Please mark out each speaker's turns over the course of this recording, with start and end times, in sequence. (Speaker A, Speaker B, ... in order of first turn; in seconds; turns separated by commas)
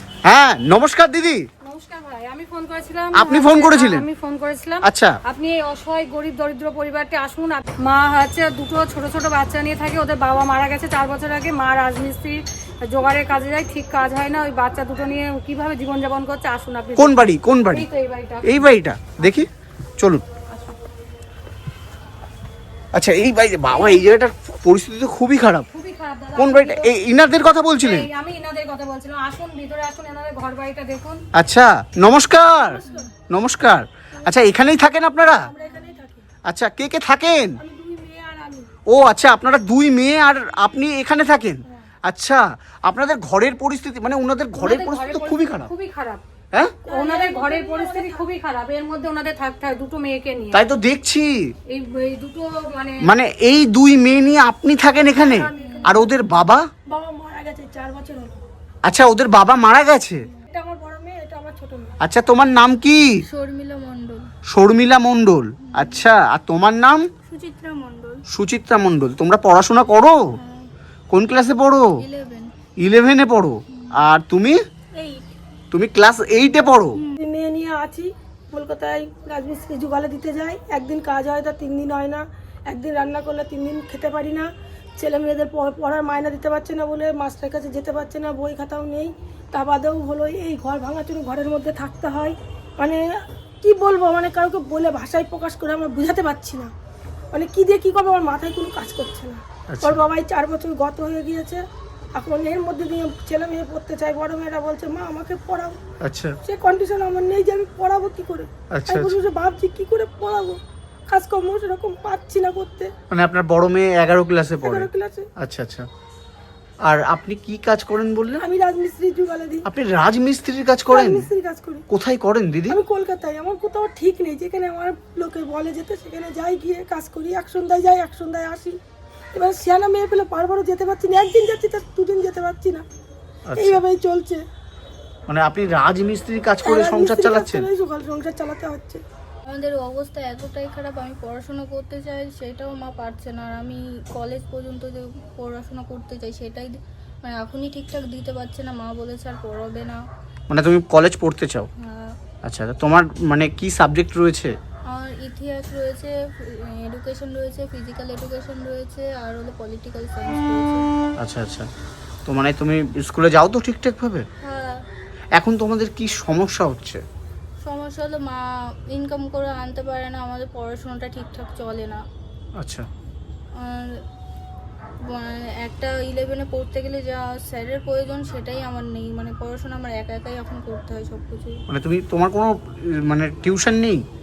Speaker A: 0.2-1.4, Speaker B: 1.6-18.7, Speaker A: 3.1-4.1, Speaker A: 4.8-5.2, Speaker A: 16.9-17.9, Speaker A: 18.4-20.2, Speaker B: 19.2-19.4, Speaker A: 22.9-25.7, Speaker B: 23.7-24.1, Speaker B: 25.7-26.9, Speaker A: 26.4-28.1, Speaker B: 27.8-31.2, Speaker A: 31.3-35.5, Speaker C: 32.6-33.0, Speaker C: 35.2-36.2, Speaker A: 36.5-37.6, Speaker C: 37.6-38.7, Speaker A: 38.9-45.7, Speaker B: 44.6-46.2, Speaker C: 46.8-48.2, Speaker B: 46.9-50.6, Speaker A: 50.5-51.4, Speaker B: 51.7-53.1, Speaker A: 53.0-56.6, Speaker C: 55.1-56.1, Speaker D: 55.5-56.0, Speaker C: 56.9-58.4, Speaker A: 58.8-60.2, Speaker C: 60.4-62.0, Speaker A: 62.0-63.2, Speaker D: 63.2-64.3, Speaker A: 64.5-67.0, Speaker D: 65.6-66.0, Speaker D: 67.3-68.2, Speaker A: 68.3-70.2, Speaker D: 70.3-70.7, Speaker A: 71.1-71.9, Speaker D: 72.0-72.5, Speaker A: 72.8-74.6, Speaker D: 75.0-75.3, Speaker A: 75.7-77.0, Speaker C: 77.2-93.0, Speaker C: 93.6-96.7, Speaker C: 97.3-101.6, Speaker A: 99.7-100.0, Speaker C: 102.1-105.8, Speaker A: 106.0-106.3, Speaker C: 106.4-112.9, Speaker A: 108.7-109.2, Speaker A: 113.1-114.9, Speaker C: 114.6-115.3, Speaker A: 115.4-115.9, Speaker A: 116.8-118.4, Speaker C: 118.4-119.7, Speaker A: 119.7-121.3, Speaker C: 120.9-121.8, Speaker A: 121.9-122.8, Speaker C: 122.7-128.8, Speaker C: 129.3-132.8, Speaker A: 133.5-133.8, Speaker C: 133.6-134.4, Speaker A: 135.3-137.7, Speaker C: 136.6-139.0, Speaker D: 139.5-150.0, Speaker A: 150.5-151.7, Speaker D: 151.8-152.2, Speaker A: 152.4-154.5, Speaker D: 154.9-160.9, Speaker A: 161.2-161.7, Speaker A: 162.2-164.2, Speaker D: 164.4-164.8, Speaker A: 165.3-167.0, Speaker D: 167.6-172.0, Speaker A: 172.6-172.9, Speaker D: 173.6-174.0, Speaker D: 175.1-181.6, Speaker A: 181.7-184.0